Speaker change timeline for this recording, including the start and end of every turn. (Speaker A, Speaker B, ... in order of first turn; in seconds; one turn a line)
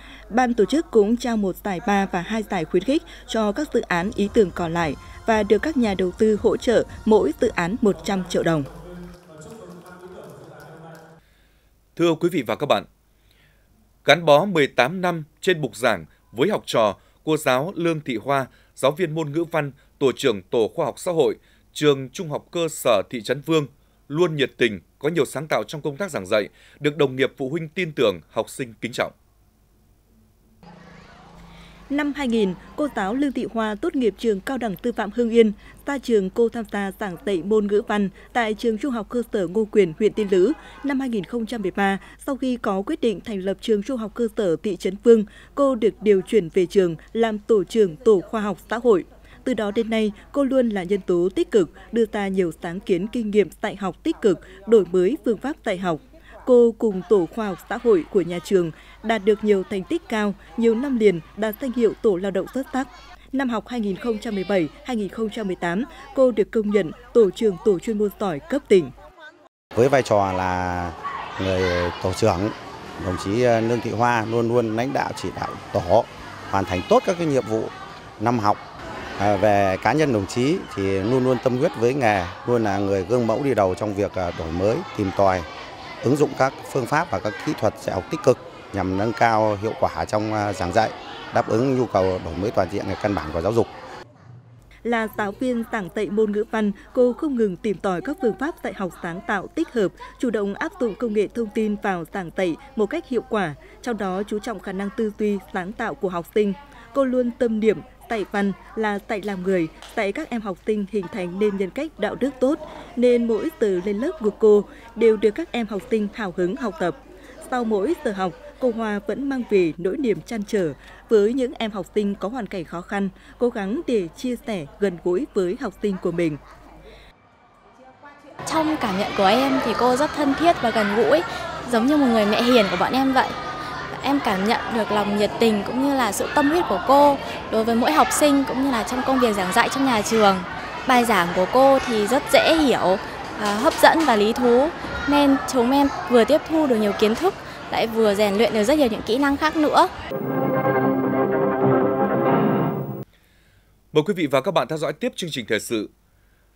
Speaker A: 0.3-8.7
Speaker B: 11.9-12.9
Speaker B: 14.1-29.1
Speaker A: 31.9-68.9
Speaker C: 69.8-78.6
Speaker C: 79.2-85.5
Speaker C: 86.0-93.7
Speaker A: 94.8-126.4
Speaker D: 128.5-133.3
Speaker D: 133.9-149.9
Speaker B: 153.9-155.9